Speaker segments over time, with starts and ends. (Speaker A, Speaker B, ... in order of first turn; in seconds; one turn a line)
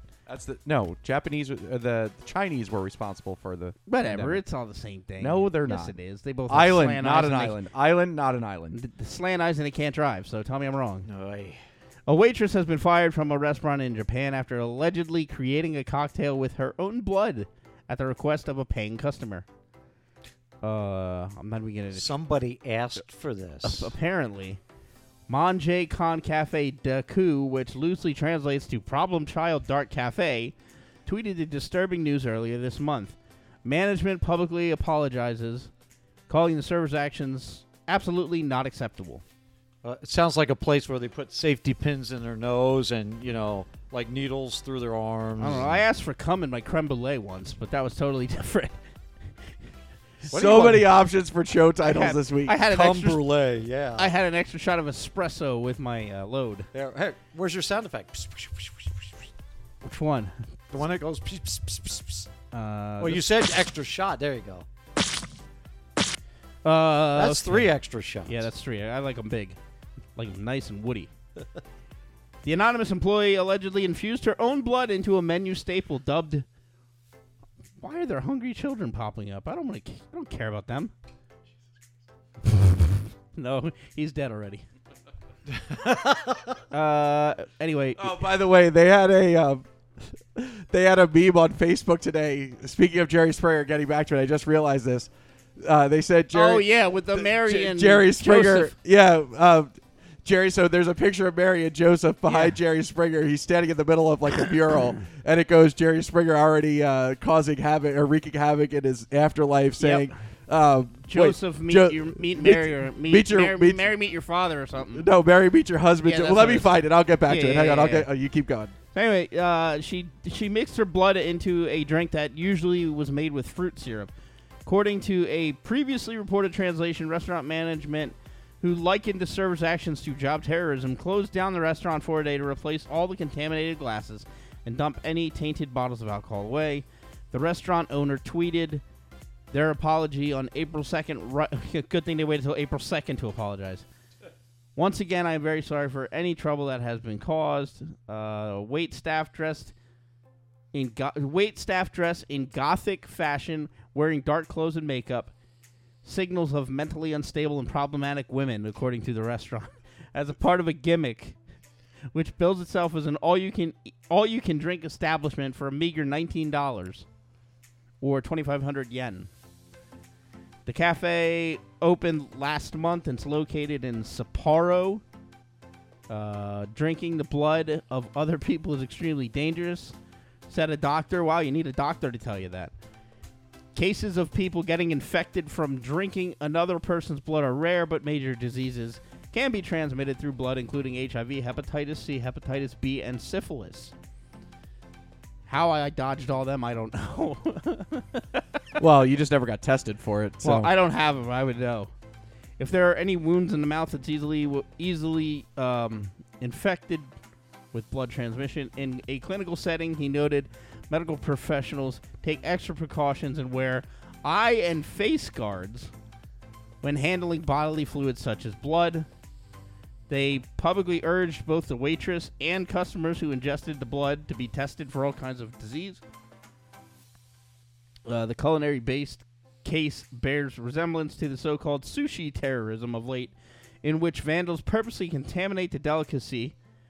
Speaker A: 0.2-4.4
Speaker B: 3.9-7.6
Speaker A: 5.2-5.9
Speaker A: 6.5-8.8
Speaker B: 8.7-11.1
Speaker C: 11.0-11.6
Speaker B: 12.1-19.4
Speaker B: 20.6-22.1
Speaker C: 21.9-23.9
Speaker B: 23.6-24.6
Speaker B: 25.3-30.5
Speaker B: 31.1-35.7
Speaker B: 36.3-39.2
Speaker C: 39.8-45.8
Speaker B: 45.4-48.8
Speaker A: 50.3-52.5
Speaker C: 50.3-50.8
Speaker B: 51.8-53.2
Speaker C: 52.6-54.1
Speaker B: 54.0-56.7
Speaker C: 56.7-59.1
Speaker B: 59.8-60.3
Speaker C: 60.7-62.3
Speaker B: 62.5-63.2
Speaker C: 63.0-64.7
Speaker B: 66.6-67.7
Speaker C: 67.1-68.5
Speaker B: 68.3-69.6
Speaker B: 70.2-71.1
Speaker B: 72.4-76.4
Speaker B: 77.8-80.9
Speaker B: 83.3-84.7
Speaker C: 85.6-86.5
Speaker B: 86.7-88.1
Speaker A: 88.0-89.6
Speaker A: 90.3-113.9
Speaker B: 96.3-98.7
Speaker B: 102.3-102.5
Speaker B: 109.8-110.1
Speaker B: 111.0-115.0
Speaker A: 114.9-118.7
Speaker B: 116.0-116.7
Speaker B: 117.2-118.1
Speaker B: 118.9-124.1
Speaker B: 124.7-138.8
Speaker B: 139.5-143.8
Speaker B: 144.8-149.7
Speaker B: 150.7-155.3
Speaker B: 156.0-161.3
Speaker B: 162.1-167.0
Speaker B: 168.0-169.3
Speaker B: 170.7-175.0
Speaker B: 176.1-179.9
Speaker B: 180.5-182.7
Speaker B: 183.7-193.9
Speaker B: 195.5-198.2
Speaker A: 198.8-200.7
Speaker B: 200.4-201.9
Speaker B: 202.6-207.1
Speaker B: 207.7-215.9
Speaker B: 216.8-219.1
Speaker B: 220.1-226.0
Speaker B: 228.1-236.5